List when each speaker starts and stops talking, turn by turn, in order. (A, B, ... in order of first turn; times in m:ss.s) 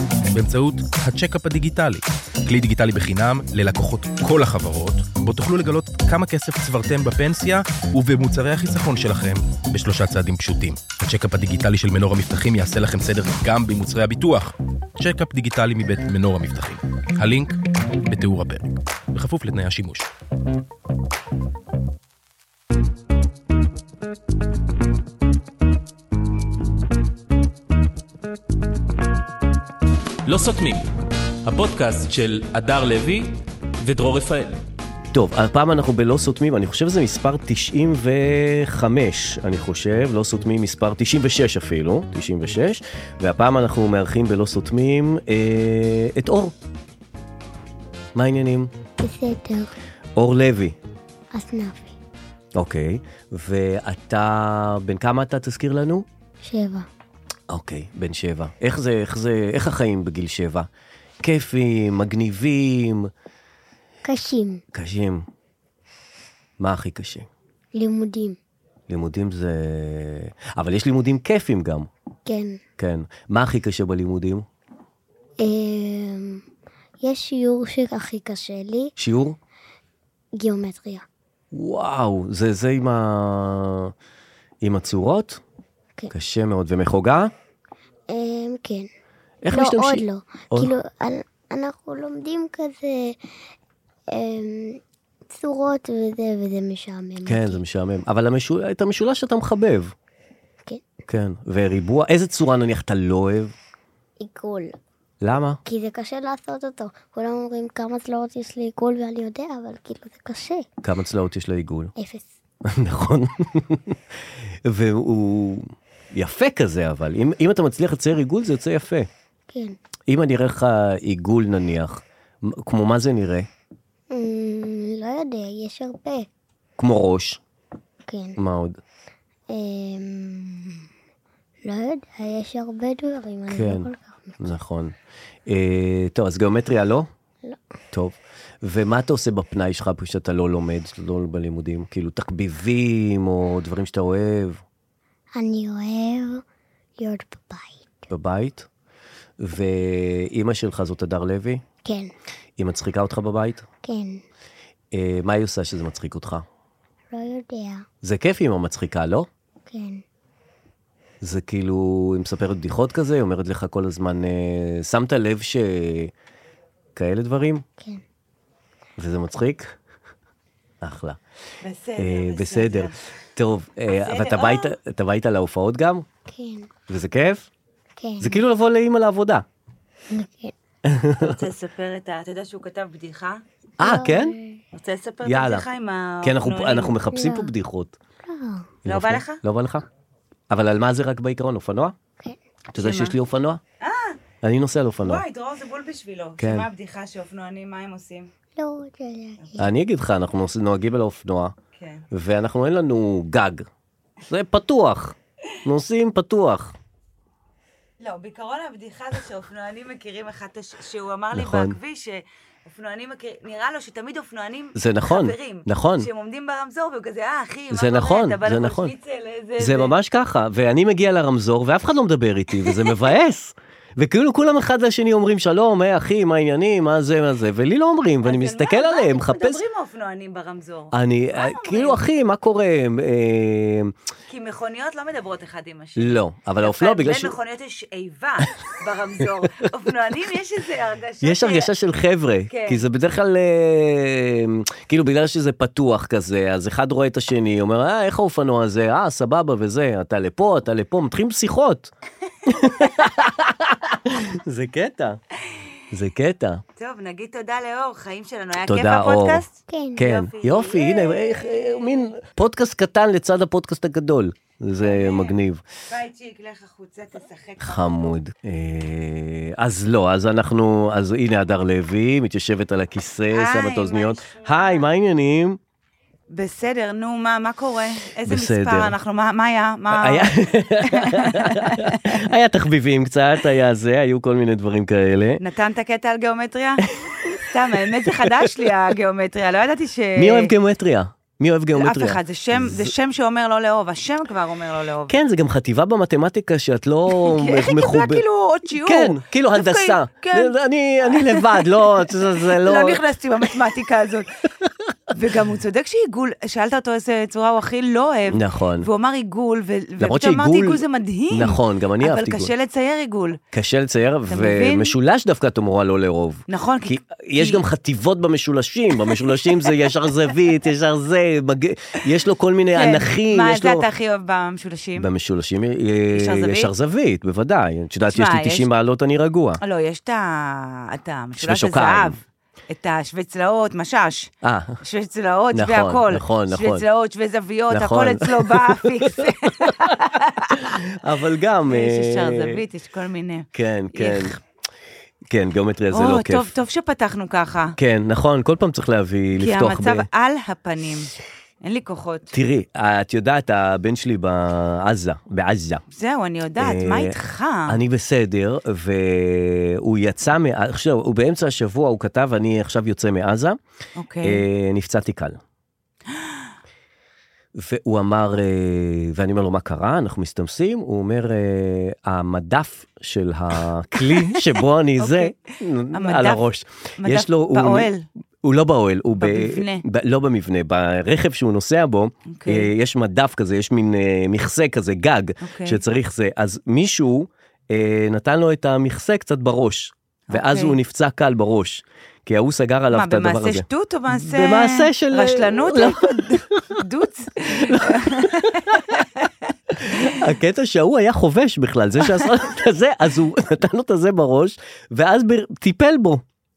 0:00.3-0:20.1 A
0:30.2-0:30.9 B
0:31.4-0:34.6 B
0:35.1-0:46.5 C
0:48.1-0:48.7 C
0:49.0-0:49.7 D
0:50.2-0:50.8 C
0:51.3-0:52.0 D
0:52.6-0:56.0 C
0:56.4-0:56.9 D
0:57.5-1:00.7 C
1:01.2-1:03.1 C
1:04.0-1:04.6 D
1:04.7-1:05.2 C
1:06.6-1:07.3 C
1:07.7-1:08.4 D
1:08.9-1:11.9 C
1:12.2-1:12.6 D
1:12.8-1:14.5 C
1:15.4-1:16.4 D
1:17.0-1:18.9 D
1:19.0-1:19.4 C
1:20.3-1:21.0 D
1:21.5-1:23.9 C
1:24.6-1:25.4 C
1:26.1-1:27.3 C
1:28.1-1:28.9 D
1:29.4-1:30.7 C
1:29.5-1:33.2 D
1:34.1-1:34.8 D
1:35.3-1:37.6 D
1:37.2-1:39.9 C
1:41.1-1:43.5 C
1:44.2-1:44.7 D
1:45.2-1:45.6 C
1:45.6-1:50.6 D
1:50.8-1:51.9 C
1:52.0-1:52.3 D
1:52.6-1:54.0 C
1:54.6-1:59.1 C
1:59.5-1:59.8 D
2:00.1-2:03.5 C
2:04.1-2:06.3 D
2:06.8-2:07.4 C
2:08.1-2:08.4 D
2:08.4-2:08.8 C
2:09.5-2:10.8 D
2:11.6-2:14.4 D
2:13.5-2:13.9 C
2:14.4-2:14.9 C
2:15.5-2:17.1 C
2:17.9-2:24.6 C
2:25.3-2:26.4 D
2:27.0-2:28.0 D
2:28.1-2:28.7 C
2:29.4-2:31.6 C
2:31.8-2:32.1 D
2:32.6-2:33.6 C
2:33.8-2:34.2 D
2:34.9-2:36.4 C
2:37.1-2:37.8 D
2:38.0-2:39.3 C
2:39.7-2:40.0 D
2:41.2-2:46.1 C
2:47.0-2:47.6 C
2:49.0-2:49.8 C
2:50.8-2:51.2 C
2:51.6-2:53.0 E
2:52.0-2:56.0 C
2:53.9-2:54.7 E
2:56.3-2:56.7 D
2:56.9-2:57.5 C
2:58.0-2:58.4 D
2:58.2-2:59.4 C
3:00.1-3:00.5 D
3:00.8-3:01.4 C
3:01.2-3:03.4 E
3:03.8-3:04.6 D
3:03.8-3:04.3 C
3:04.7-3:06.9 E
3:05.2-3:05.6 C
3:06.2-3:07.9 C
3:07.1-3:07.5 D
3:08.2-3:08.7 D
3:08.8-3:09.8 C
3:08.8-3:09.4 E
3:10.5-3:12.0 C
3:12.7-3:13.6 C
3:12.8-3:13.1 E
3:13.8-3:14.2 E
3:14.4-3:15.2 C
3:15.0-3:18.3 E
3:16.4-3:16.7 C
3:18.6-3:19.6 D
3:19.6-3:21.5 C
3:21.8-3:22.0 E
3:22.1-3:23.7 C
3:24.3-3:26.7 C
3:28.0-3:39.9 E
3:31.3-3:31.8 C
3:34.7-3:36.1 C
3:37.7-3:38.9 C
3:39.6-3:49.6 C
3:48.2-3:52.0 E
3:50.9-3:53.9 C
3:54.3-4:01.7 E
3:56.0-3:57.3 C
4:01.2-4:11.9 C
4:02.5-4:02.8 E
4:12.4-4:15.2 C
4:12.7-4:13.1 E
4:15.9-4:16.6 C
4:16.8-4:22.1 E
4:18.6-4:19.4 C
4:19.7-4:20.1 D
4:20.0-4:25.6 C
4:24.8-4:25.3 E
4:25.9-4:28.1 E
4:27.6-4:35.6 C
4:33.3-4:34.8 E
4:36.3-4:40.3 E
4:38.3-4:38.9 C
4:39.9-4:45.4 C
4:40.8-4:42.3 E
4:45.4-4:46.9 E
4:46.9-4:48.5 C
4:47.4-4:50.5 E
4:50.2-4:52.9 C
4:51.7-4:55.1 E
4:55.1-4:58.2 C
4:57.1-5:00.5 E
4:58.8-5:03.0 C
5:01.0-5:04.3 E
5:05.1-5:13.4 E
5:08.3-5:08.9 C
5:10.0-5:12.5 C
5:13.5-5:23.8 C
5:14.3-5:14.9 E
5:16.5-5:17.6 E
5:22.7-5:25.1 E
5:25.0-5:29.6 C
5:26.1-5:26.7 E
5:28.1-5:28.7 E
5:29.6-5:34.3 E
5:31.4-5:32.2 C
5:34.4-5:34.8 C
5:34.8-5:40.8 E
5:35.5-5:36.8 C
5:37.7-5:40.0 C
5:40.6-5:42.6 C
5:41.7-5:44.4 E
5:43.5-5:44.3 C
5:45.3-5:46.5 C
5:45.9-5:47.8 E
5:47.8-5:50.1 C
5:49.4-5:51.1 E
5:51.6-5:52.3 E
5:52.3-5:55.8 C
5:55.9-5:57.8 E
5:56.6-5:57.2 C
5:57.7-6:03.6 C
6:04.0-6:04.4 E
6:04.2-6:05.4 C
6:07.5-6:17.9 C
6:14.2-6:16.4 E
6:17.0-6:18.0 E
6:18.4-6:36.8 C
6:19.2-6:19.8 E
6:22.3-6:22.7 E
6:25.4-6:25.8 E
6:30.3-6:30.8 E
6:32.9-6:40.2 E
6:37.5-6:39.0 C
6:39.8-6:46.2 C
6:42.0-6:42.3 E